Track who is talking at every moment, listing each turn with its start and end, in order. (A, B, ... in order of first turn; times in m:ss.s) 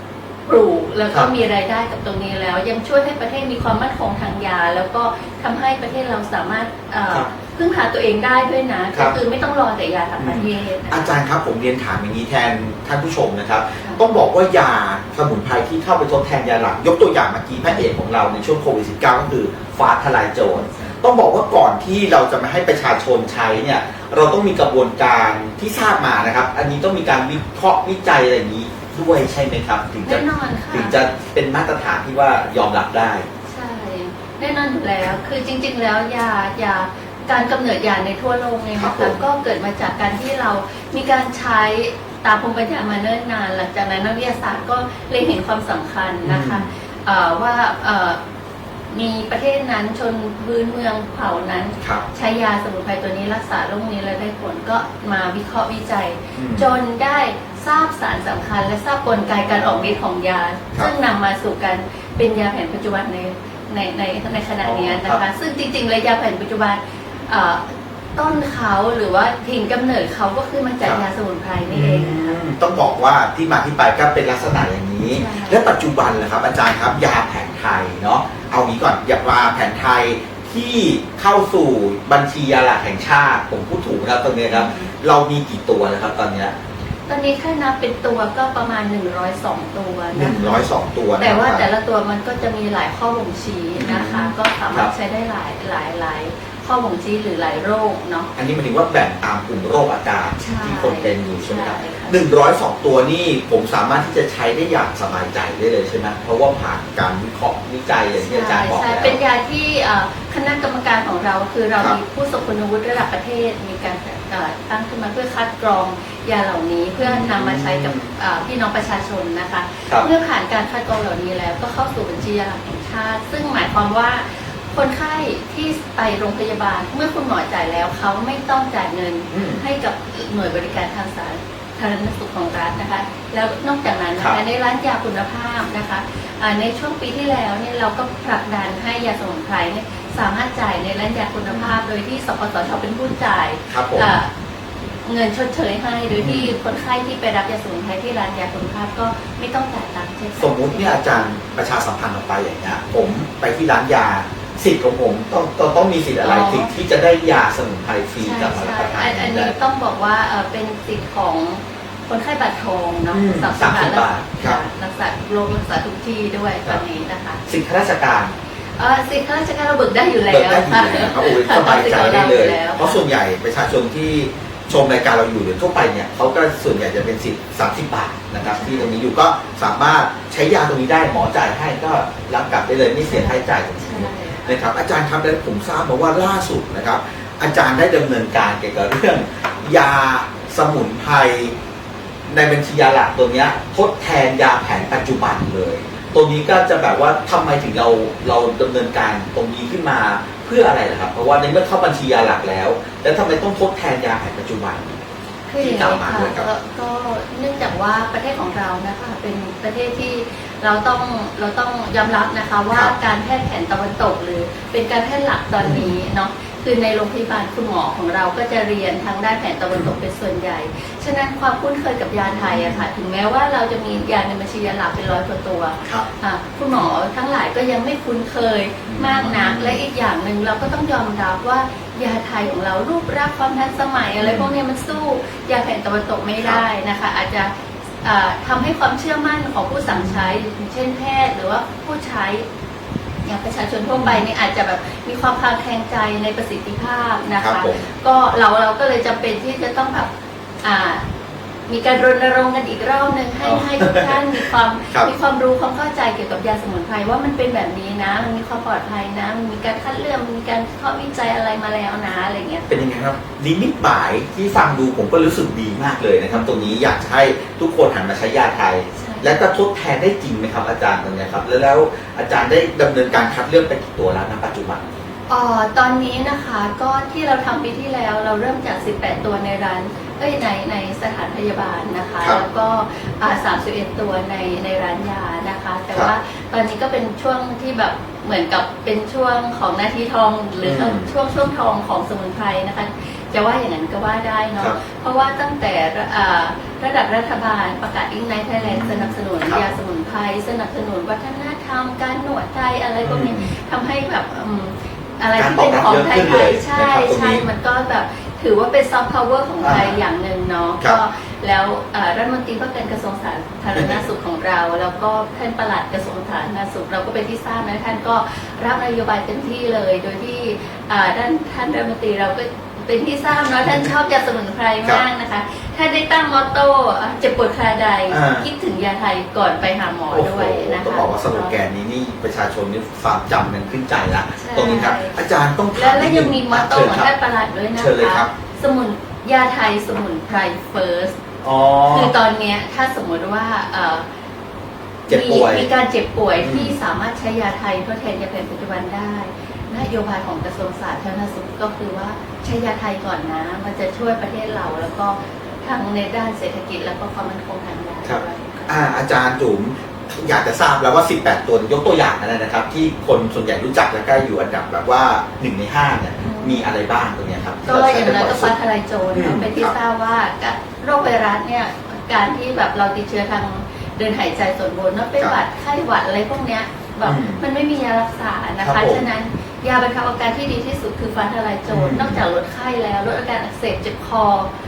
0:00.4-0:11.2 A
0:10.2-0:33.3 B
0:20.5-0:21.0 A
0:30.0-0:31.0 A
0:33.5-0:48.2 A
0:38.7-0:39.2 B
0:46.2-0:46.6 B
0:48.9-1:12.4 A
0:56.4-0:56.7 B
0:59.3-1:00.0 B
1:04.6-1:05.2 B
1:11.7-1:26.5 B
1:15.1-1:15.7 A
1:24.5-1:24.9 A
1:27.1-1:38.3 A
1:30.1-1:31.6 B
1:33.8-1:34.9 B
1:38.4-1:49.2 B
1:40.4-1:42.2 A
1:48.2-2:24.3 A
1:57.0-1:58.1 B
2:09.3-2:09.6 B
2:21.4-2:21.7 B
2:23.7-2:24.1 B
2:25.0-2:31.2 A
2:26.2-2:26.6 B
2:30.4-2:39.5 B
2:36.2-2:36.7 A
2:38.2-2:47.4 A
2:43.1-2:44.6 B
2:47.4-2:48.3 B
2:48.8-2:53.0 A
2:50.3-3:11.6 B
2:58.4-2:58.9 A
3:03.0-3:04.5 A
3:12.2-3:25.0 B
3:25.5-4:02.4 A
3:25.6-3:26.5 B
3:35.6-3:35.9 B
3:42.2-3:42.8 B
3:48.9-3:49.8 B
3:54.2-3:54.5 B
3:59.9-4:00.3 B
4:03.2-4:10.1 A
4:03.9-4:04.3 B
4:07.4-4:07.8 B
4:10.6-4:11.0 A
4:11.7-4:22.8 A
4:13.4-4:15.1 B
4:22.7-4:35.1 B
4:26.3-4:26.7 A
4:28.9-4:29.3 A
4:35.3-5:31.6 A
4:50.6-4:51.1 B
4:58.6-4:59.6 B
5:03.0-5:03.5 B
5:05.4-5:07.4 B
5:09.6-5:10.0 B
5:13.7-5:14.0 B
5:28.1-5:28.4 B
5:30.1-5:37.1 B
5:34.4-5:41.2 A
5:37.7-5:38.3 B
5:41.4-5:42.1 B
5:41.9-5:44.0 A
5:45.1-5:45.7 B
5:45.1-5:58.8 A
5:46.4-5:46.7 B
5:58.0-6:08.5 B
6:06.2-6:06.6 A
6:07.6-6:24.5 A
6:09.1-6:09.7 B
6:17.0-6:17.4 B
6:18.6-6:19.0 B
6:21.7-6:22.2 B